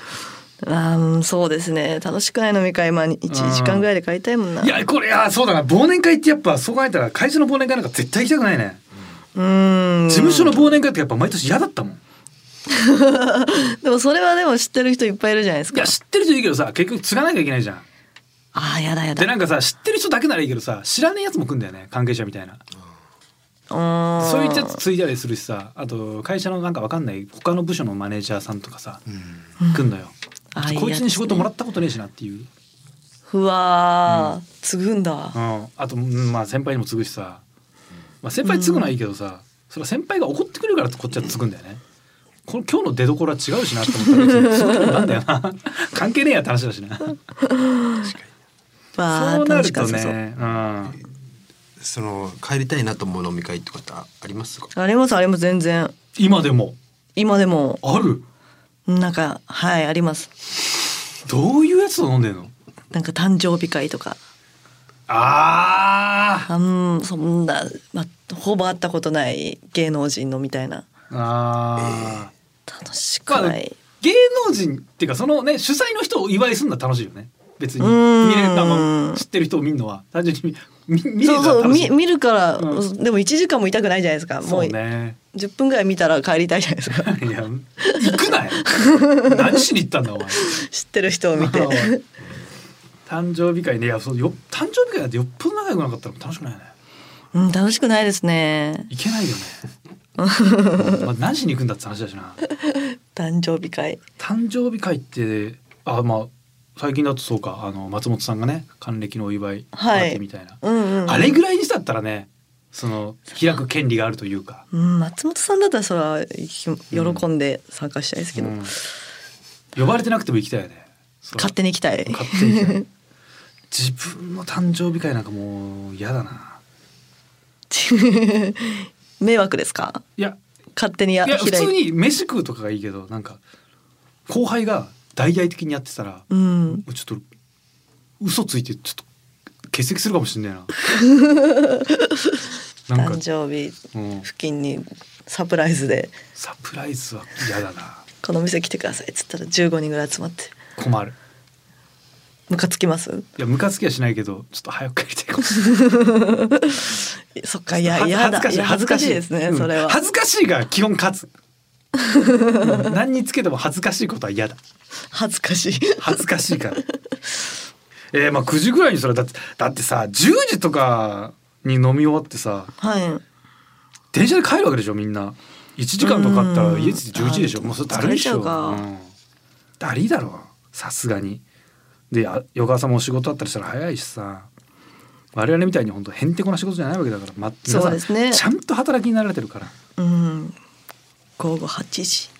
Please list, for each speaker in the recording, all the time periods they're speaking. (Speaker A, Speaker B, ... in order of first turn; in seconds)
Speaker A: 0.6-4.8, 9.3-10.8, 12.7-15.9, 18.5-19.3, 23.7-24.8, 29.6-29.9, 30.5-31.5, 33.3-35.4, 38.4-38.9, 44.0-45.1, 47.4-48.1, 49.0-50.2, 54.7-55.9, 57.1-57.8, 58.9-60.3, 62.9-64.2, 66.5-70.8, 72.7-73.8, 77.8-79.2, 81.2-84.8, 85.3-87.1, 87.8-89.6, 90.3-92.0, 97.3-98.9, 100.2-101.0, 102.4-104.0, 109.7-111.4, 114.7-118.7, 121.4-122.8, 127.7-130.0, 130.8-131.7, 136.3-136.8, 140.9-142.4, 142.9-146.1, 148.2-150.5, 152.5-153.3, 155.6-160.0, 161.9-162.9, 165.1-166.2, 172.8-173.2, 176.0-178.8, 187.7-188.4, 190.0-190.6, 191.4-192.3
Speaker B: 3.3-3.9, 4.6-8.8, 10.1-12.0, 15.7-17.9, 19.2-22.6, 24.2-29.0, 29.7-32.5, 34.1-34.3, 35.3-37.4, 38.2-41.8, 42.5-47.2, 49.1-51.0, 56.1-56.8, 57.8-58.2, 61.2-62.5, 65.1-66.5, 71.1-72.3, 73.3-82.0, 82.6-82.8, 84.4-85.2, 86.9-90.6, 91.3-91.9, 93.0-96.7, 98.9-99.6, 100.8-102.4, 104.2-114.6, 116.9-117.2, 118.3-118.7, 119.7-121.5, 122.0-122.8, 123.7-126.6, 131.2-133.4, 134.3-137.2, 138.2-139.0, 139.7-140.7, 142.9-143.2, 143.9-144.2, 146.3-148.0, 150.8-151.1, 153.4-155.9, 157.8-161.3, 162.6-164.6, 166.0-166.8, 168.1-172.7, 174.1-179.1, 179.8-181.4, 182.1-184.5, 185.3-189.7
Speaker C: 48.0-48.3, 51.8-54.7, 71.8-72.2